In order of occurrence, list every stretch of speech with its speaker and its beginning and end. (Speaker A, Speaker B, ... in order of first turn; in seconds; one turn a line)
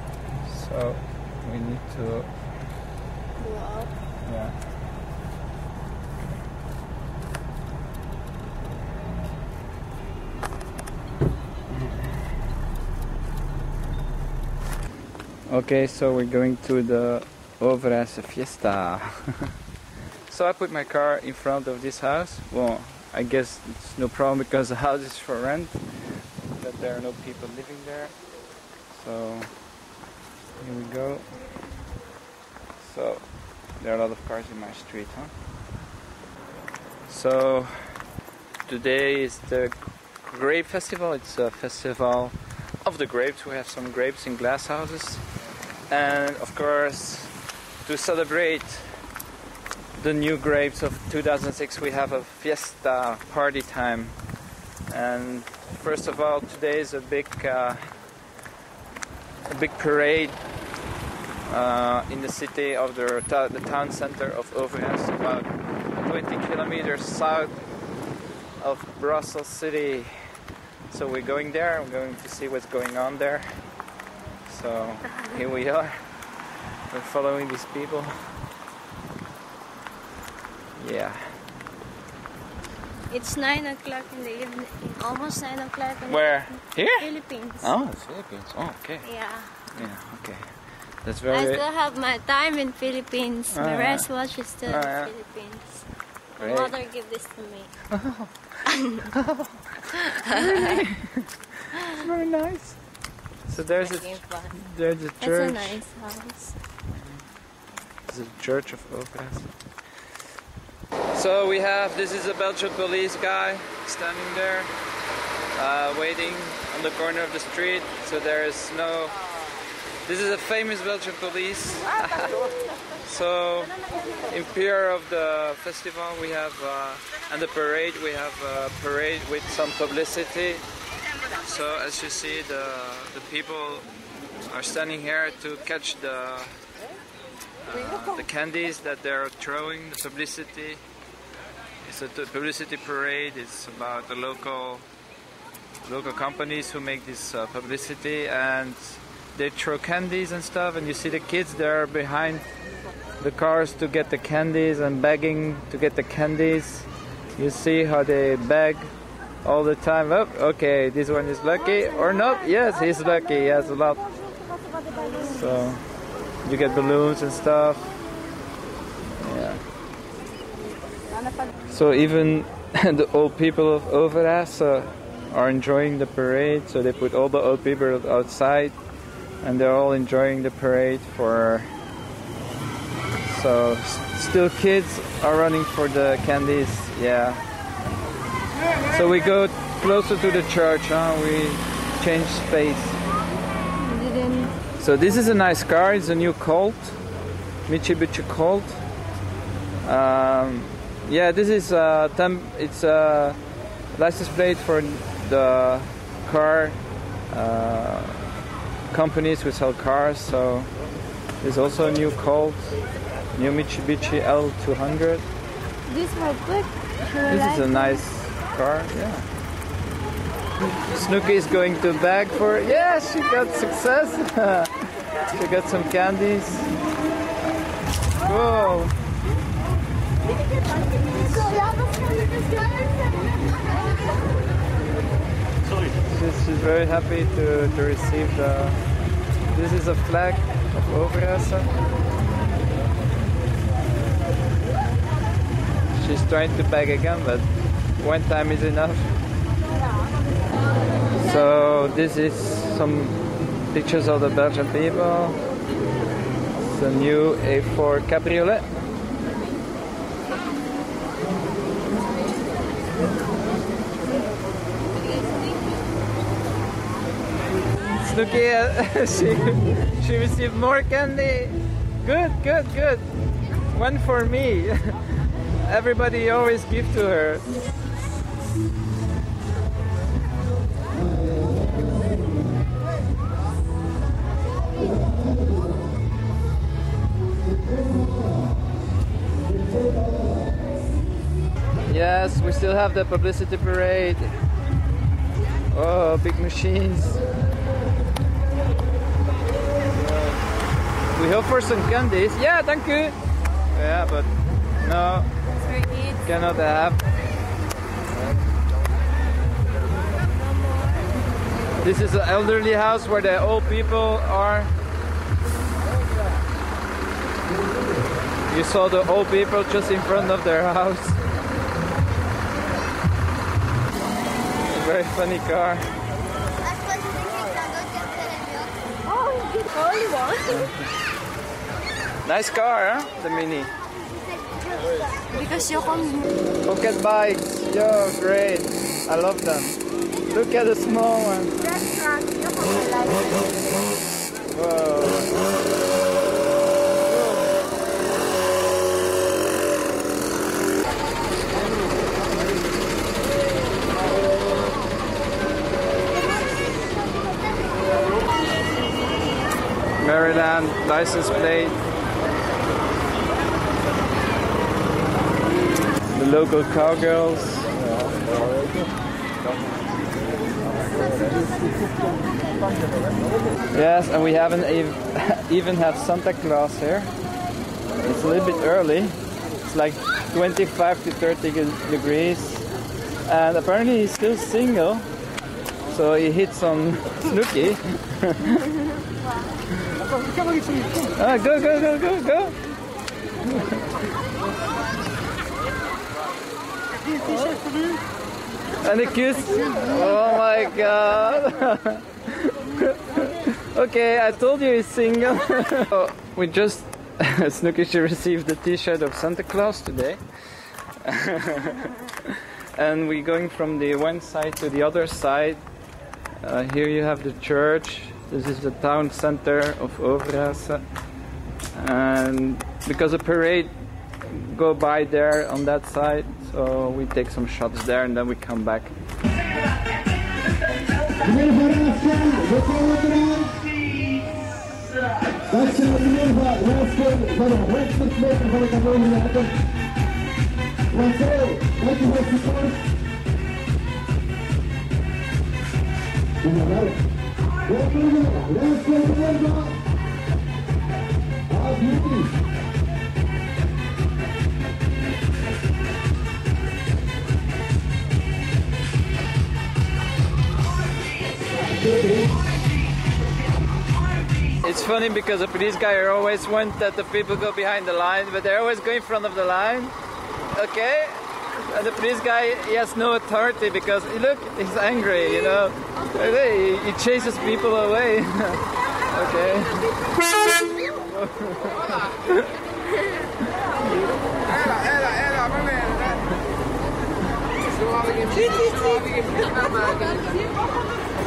Speaker A: 0.4-2.3
Speaker B: 3.4-3.9
Speaker A: 4.2-4.5
Speaker A: 15.5-19.3
Speaker A: 20.3-28.1
Speaker A: 28.9-29.5
Speaker A: 30.6-31.3
Speaker A: 32.8-35.3
Speaker A: 37.1-38.0
Speaker A: 38.7-45.3
Speaker A: 45.9-49.0
Speaker A: 50.0-54.2
Speaker A: 54.9-57.8
Speaker A: 59.5-60.4
Speaker A: 61.5-67.5
Speaker A: 68.6-70.1
Speaker A: 70.9-73.5
Speaker A: 74.5-76.0
Speaker A: 76.9-78.2
Speaker A: 80.8-81.2
Speaker B: 83.1-87.7
Speaker A: 86.1-87.1
Speaker A: 87.6-89.0
Speaker B: 89.0-89.5
Speaker A: 89.7-90.5
Speaker A: 91.0-91.6
Speaker B: 91.3-95.8
Speaker A: 93.5-94.1
Speaker A: 94.6-95.1
Speaker B: 96.4-97.7
Speaker A: 96.4-96.8
Speaker A: 97.9-98.4
Speaker A: 99.0-101.3
Speaker B: 100.3-100.8
Speaker A: 101.8-102.8
Speaker A: 103.5-105.8
Speaker B: 103.8-104.5
Speaker B: 105.2-106.5
Speaker A: 108.1-109.5
Speaker A: 111.1-114.7
Speaker A: 115.5-119.2
Speaker A: 120.0-122.5
Speaker A: 123.0-130.6
Speaker A: 131.3-133.9
Speaker A: 134.5-136.5
Speaker A: 137.6-140.8
Speaker A: 141.8-144.8
Speaker A: 145.8-152.4
Speaker A: 153.2-158.9
Speaker A: 159.4-164.1
Speaker A: 165.2-165.8
Speaker A: 166.4-167.9
Speaker A: 169.2-169.6
Speaker A: 171.7-178.8
Speaker A: 179.4-181.7
Speaker A: 183.2-187.4
Speaker A: 188.9-193.0
Speaker C: 193.8-194.5
Speaker A: 194.8-197.0
Speaker A: 197.7-198.8
Speaker A: 199.8-203.4
Speaker A: 203.9-206.8
Speaker A: 207.3-208.2
Speaker A: 208.9-210.7
Speaker A: 211.4-212.8
Speaker A: 213.3-215.2
Speaker B: 215.9-216.7
Speaker C: 216.1-216.4
Speaker A: 217.3-219.2
Speaker B: 217.3-218.0
Speaker A: 220.9-224.7
Speaker A: 225.3-226.8
Speaker A: 228.2-228.9
Speaker A: 236.1-238.8
Speaker A: 239.5-241.7
Speaker A: 245.9-247.4
Speaker A: 248.0-249.0
Speaker A: 251.2-255.4
Speaker A: 256.6-258.6
Speaker A: 268.0-273.1
Speaker A: 273.7-275.0
Speaker A: 275.6-277.4
Speaker A: 291.9-294.3
Speaker A: 295.7-297.2
Speaker A: 301.1-303.2
Speaker A: 303.7-304.3
Speaker A: 304.8-305.3
Speaker B: 305.7-306.1
Speaker A: 306.2-307.0
Speaker A: 311.8-314.7
Speaker A: 318.5-321.2
Speaker A: 324.7-325.9
Speaker B: 326.8-328.4
Speaker C: 326.9-327.2
Speaker C: 327.7-330.2
Speaker B: 329.2-330.7
Speaker A: 330.5-330.8
Speaker A: 332.2-333.7
Speaker C: 335.4-335.7
Speaker B: 335.6-336.2
Speaker A: 336.6-339.8
Speaker A: 340.3-341.6
Speaker B: 342.7-343.4
Speaker A: 344.5-345.4
Speaker A: 360.0-361.8
Speaker A: 366.1-367.7
Speaker A: 373.7-377.1
Speaker A: 378.0-382.7
Speaker A: 383.2-385.1
Speaker A: 385.9-388.8
Speaker A: 391.1-392.6
Speaker A: 393.5-393.8
Speaker A: 398.8-410.2
Speaker A: 411.0-415.6
Speaker A: 416.4-420.8
Speaker A: 421.7-423.7
Speaker A: 424.3-428.9
Speaker C: 431.2-433.7
Speaker C: 435.5-439.6
Speaker C: 440.9-442.8
Speaker C: 446.4-447.0
Speaker C: 447.6-449.8
Speaker C: 451.5-452.3
Speaker A: 464.5-469.9
Speaker A: 470.5-479.9
Speaker A: 480.8-482.5
Speaker B: 488.3-490.1